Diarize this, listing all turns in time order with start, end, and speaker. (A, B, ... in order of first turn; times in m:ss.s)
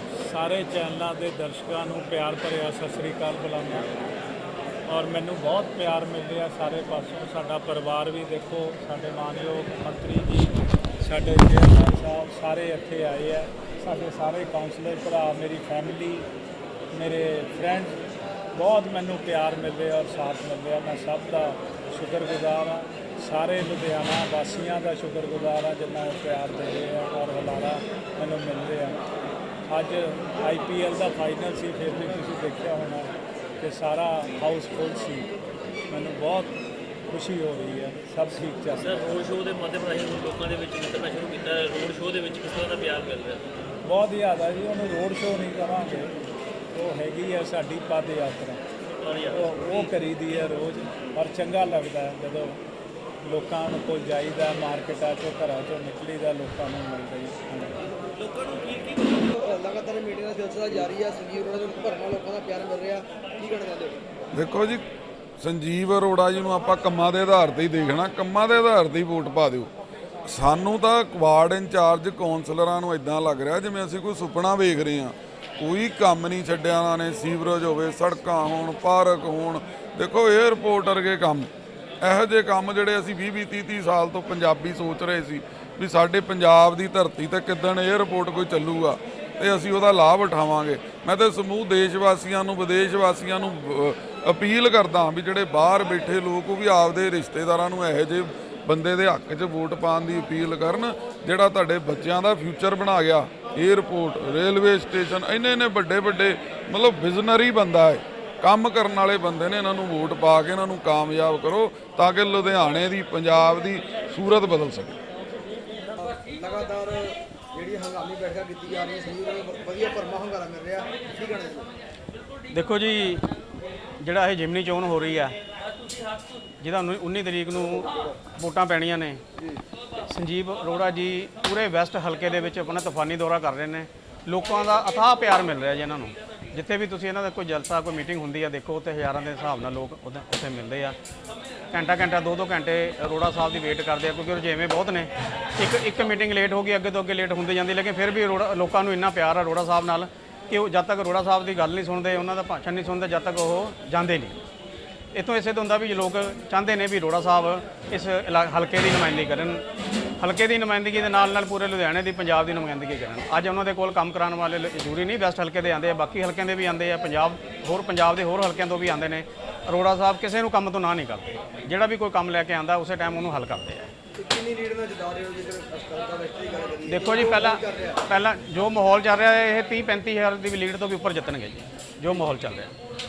0:00.2-0:03.8 A
0:04.9-0:16.3 A
0:16.9-0:18.0 A
0:18.5-0:29.0 A
0:29.7-0:35.3 A
0:35.9-0:36.6 A
0:37.1-0:39.1 A
0:38.7-0:43.6 B
0:43.8-0:46.1 A
0:46.7-0:48.6 A
0:49.0-0:49.9 B
0:49.3-0:52.6 A
0:53.2-0:57.8 A
0:58.1-0:59.3 B
0:59.3-1:04.0 C
1:04.3-1:04.8 D
1:05.4-1:09.7 D
1:10.2-1:21.5 D
1:22.0-1:55.0 D
1:55.8-2:01.7 C
2:02.5-2:03.2 E
2:04.0-2:05.4 E
2:06.6-2:09.2 E
2:10.1-2:21.0 E
2:21.7-2:34.4 E
2:35.1-2:39.6 E
2:40.2-2:53.9 E
2:54.1-2:58.0 C
2:56.9-3:02.7 E